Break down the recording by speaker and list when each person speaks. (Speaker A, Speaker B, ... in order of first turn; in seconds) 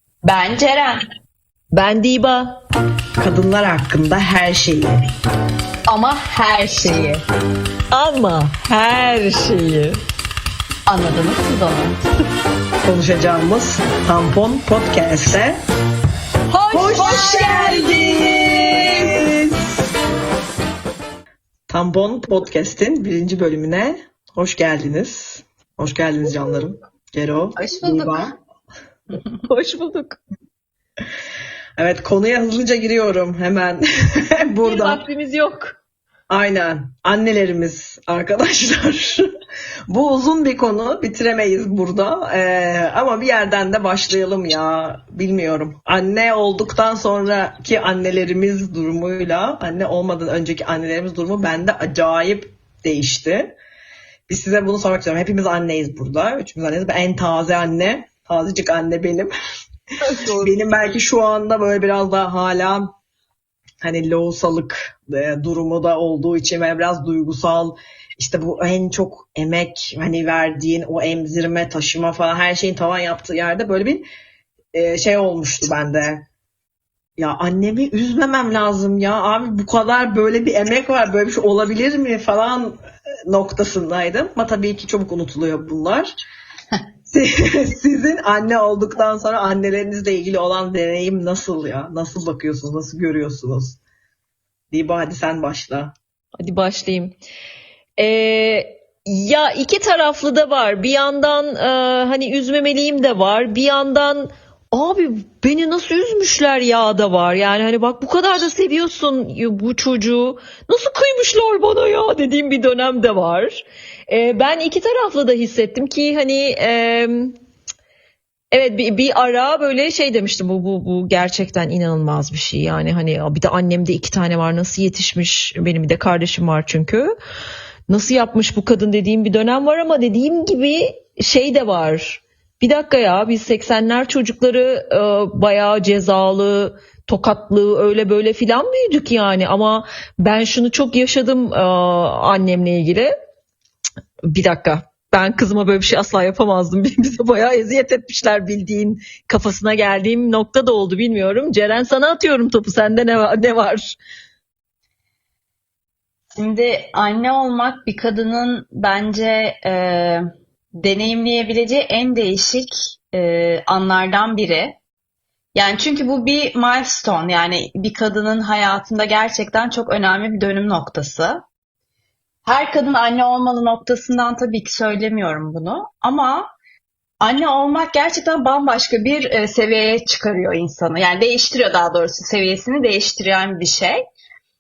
Speaker A: 0.2-1.0, 5.9-7.2, 10.9-12.0, 16.5-19.2, 27.6-28.3, 156.3-160.3, 160.8-164.8, 165.5-171.4, 172.4-176.5, 177.2-184.0
Speaker B: 1.7-2.6, 7.9-10.0, 29.5-30.2, 34.6-35.8, 96.4-97.1, 98.0-117.4, 118.5-127.1, 127.9-143.1, 144.3-154.0
Speaker C: 3.2-5.1, 12.8-15.6, 16.7-19.7, 21.7-28.3, 31.8-35.0, 36.3-39.3, 39.9-53.5, 54.3-59.3, 60.4-62.9, 63.8-74.0, 74.7-76.2, 77.2-86.1, 87.1-93.8, 94.7-95.9